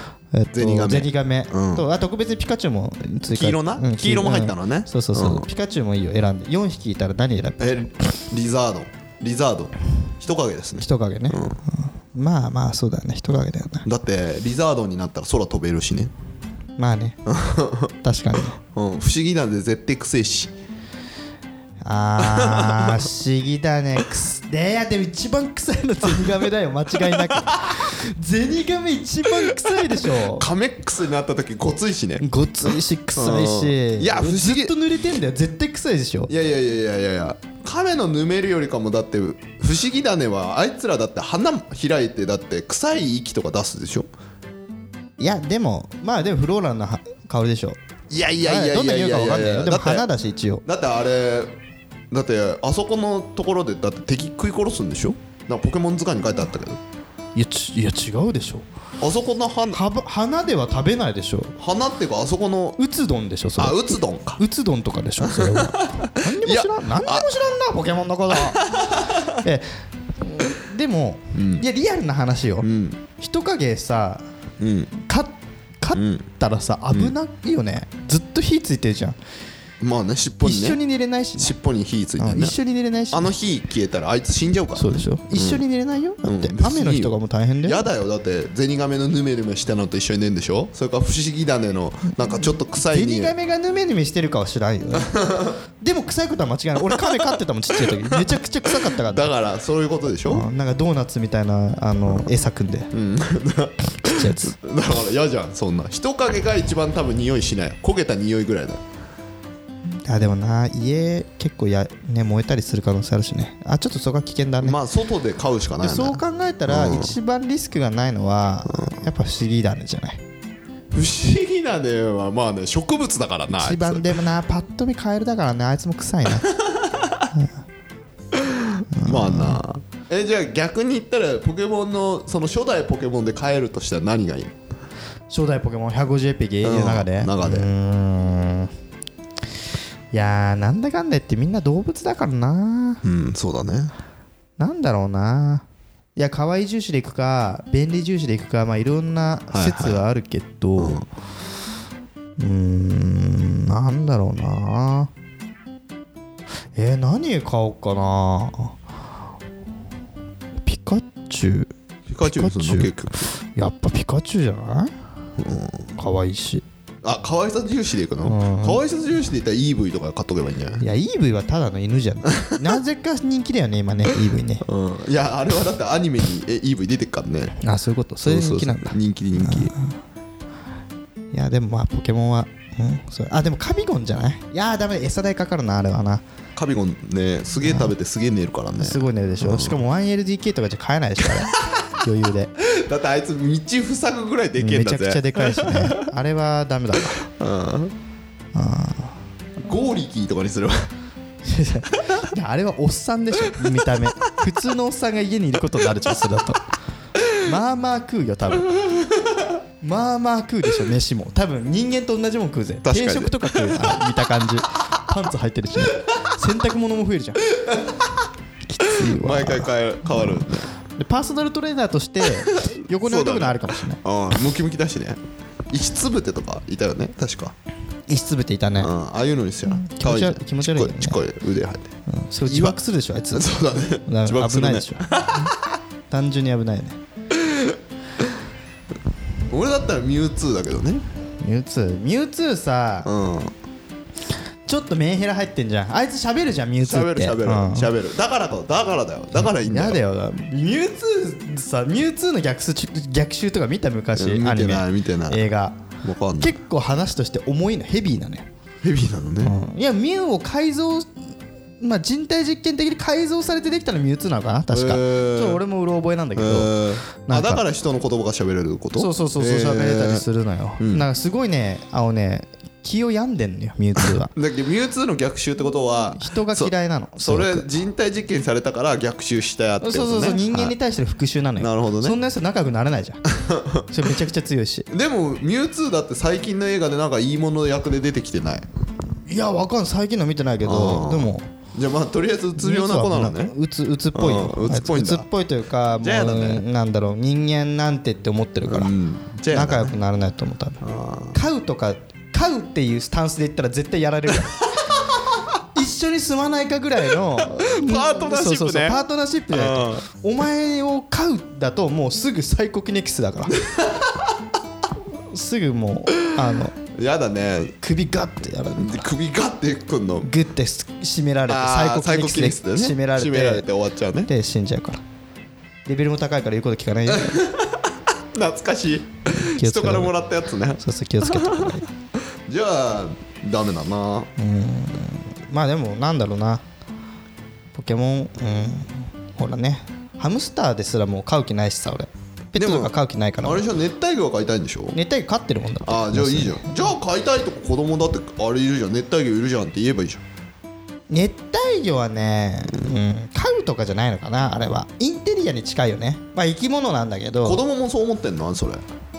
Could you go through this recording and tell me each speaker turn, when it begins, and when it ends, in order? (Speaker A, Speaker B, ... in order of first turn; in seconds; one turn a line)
Speaker A: 0.3-7.7
Speaker B: 0.5-1.9
Speaker B: 3.3-5.5
Speaker B: 7.6-11.6
Speaker A: 10.8-13.8
Speaker B: 13.8-16.1
Speaker A: 16.8-17.2
Speaker B: 17.2-17.9
Speaker A: 18.0-18.6
Speaker B: 18.6-20.5
Speaker A: 21.8-30.5
Speaker B: 22.2-23.1
Speaker B: 26.1-26.4
Speaker B: 27.1-27.9
Speaker B: 29.4-32.2
Speaker A: 32.2-36.3
Speaker B: 33.1-34.8
Speaker B: 36.3-44.1
Speaker A: 45.2-47.8
Speaker B: 48.1-50.1
Speaker A: 48.4-50.6
Speaker B: 50.6-51.5
Speaker B: 52.1-56.8
Speaker A: 57.3-58.6
Speaker B: 59.0-59.8
Speaker A: 59.7-61.5
Speaker B: 61.6-62.8
Speaker A: 62.8-68.6
Speaker B: 63.5-64.4
Speaker B: 65.2-67.3
Speaker B: 68.3-69.3
Speaker A: 69.3-74.2
Speaker B: 71.3-71.7
Speaker B: 72.6-73.0
Speaker B: 74.6-74.9
Speaker A: 75.0-79.2
Speaker B: 75.9-76.2
Speaker B: 79.8-80.8
Speaker A: 80.4-81.5
Speaker B: 81.4-82.5
Speaker A: 82.2-83.3
Speaker B: 83.1-85.6
Speaker A: 84.8-87.8
Speaker B: 86.2-93.3
Speaker A: 92.8-95.2
Speaker B: 95.0-95.5
Speaker A: 95.8-99.3
Speaker B: 96.8-100.5
Speaker A: 100.2-102.9
Speaker B: 102.9-108.8
Speaker A: 104.0-104.6
Speaker A: 109.9-114.8
Speaker B: 114.6-117.1
Speaker A: 115.8-120.2
Speaker B: 118.7-119.0
Speaker B: 120.9-124.1
Speaker A: 123.5-126.5
Speaker B: 126.5-127.2
Speaker B: 128.3-134.5
Speaker A: 128.9-129.6
Speaker A: 135.3-138.7
Speaker B: 136.6-137.7
Speaker A: 140.1-143.0
Speaker B: 143.0-143.9
Speaker A: 144.6-145.6
Speaker A: 146.2-151.0
Speaker B: 149.5-150.0
Speaker B: 150.8-151.1
Speaker A: 152.4-155.1
Speaker A: 156.7-158.7
Speaker A: 160.6-161.7
Speaker B: 162.1-163.3
Speaker A: 162.2-164.9
Speaker B: 165.4-165.9
Speaker A: 165.9-166.6
Speaker B: 167.0-170.8
Speaker A: 168.2-168.8
Speaker A: 170.8-174.6
Speaker B: 174.6-177.6
Speaker A: 177.6-179.9
Speaker B: 178.2-179.7
Speaker A: 181.3-186.2
Speaker B: 186.6-189.8
Speaker A: 187.6-187.9
Speaker A: 188.8-192.5
Speaker B: 192.6-196.0
Speaker A: 194.6-197.2
Speaker B: 197.2-197.9
Speaker A: 198.5-199.2
Speaker B: 199.6-200.9
Speaker A: 201.4-206.6
Speaker A: 207.3-208.7
Speaker B: 208.8-209.4
Speaker A: 209.8-217.4
Speaker B: 212.8-214.0
Speaker B: 217.6-218.1
Speaker A: 218.7-224.0
Speaker B: 218.9-220.7
Speaker B: 222.5-227.5
Speaker A: 228.1-228.9
Speaker B: 228.8-231.9
Speaker A: 229.7-231.2
Speaker A: 232.1-235.1
Speaker B: 232.5-232.8
Speaker B: 233.3-235.6
Speaker A: 236.1-237.0
Speaker B: 237.3-237.8
Speaker B: 239.5-241.0
Speaker A: 241.4-243.1
Speaker B: 243.0-243.5
Speaker A: 244.7-247.9
Speaker B: 246.8-250.0
Speaker A: 249.3-255.8
Speaker B: 254.2-255.5
Speaker B: 256.0-256.6
Speaker A: 256.4-258.5
Speaker B: 258.8-259.5
Speaker A: 259.4-261.2
Speaker A: 261.8-267.6
Speaker B: 264.7-265.6
Speaker B: 266.4-270.2
Speaker A: 269.0-274.3
Speaker B: 270.8-271.0
Speaker B: 274.0-280.8
Speaker A: 276.1-277.7
Speaker A: 279.8-283.2
Speaker B: 281.6-282.2
Speaker B: 283.3-283.8
Speaker A: 283.9-284.9
Speaker B: 284.9-288.7
Speaker A: 289.3-291.5
Speaker B: 290.6-293.5
Speaker A: 292.6-298.9
Speaker B: 294.1-295.3
Speaker B: 296.0-296.6
Speaker B: 298.6-299.9
Speaker A: 299.5-300.8
Speaker B: 300.8-301.4
Speaker A: 301.3-304.6
Speaker B: 304.9-305.4
Speaker A: 305.7-313.6
Speaker B: 307.3-309.0
Speaker B: 309.5-310.0
Speaker B: 313.6-314.3
Speaker A: 315.3-316.7
Speaker B: 316.8-317.8
Speaker A: 317.8-319.1
Speaker B: 318.8-320.3
Speaker A: 320.2-323.7
Speaker B: 321.5-324.3
Speaker A: 324.2-325.0
Speaker A: 325.9-327.4
Speaker B: 327.1-331.8
Speaker A: 329.3-330.1
Speaker A: 330.8-331.9
Speaker B: 332.4-334.3
Speaker A: 334.4-336.6
Speaker A: 337.7-343.6
Speaker B: 342.6-345.0
Speaker A: 344.9-346.8
Speaker B: 345.8-350.2
Speaker A: 351.1-357.6
Speaker B: 357.4-358.8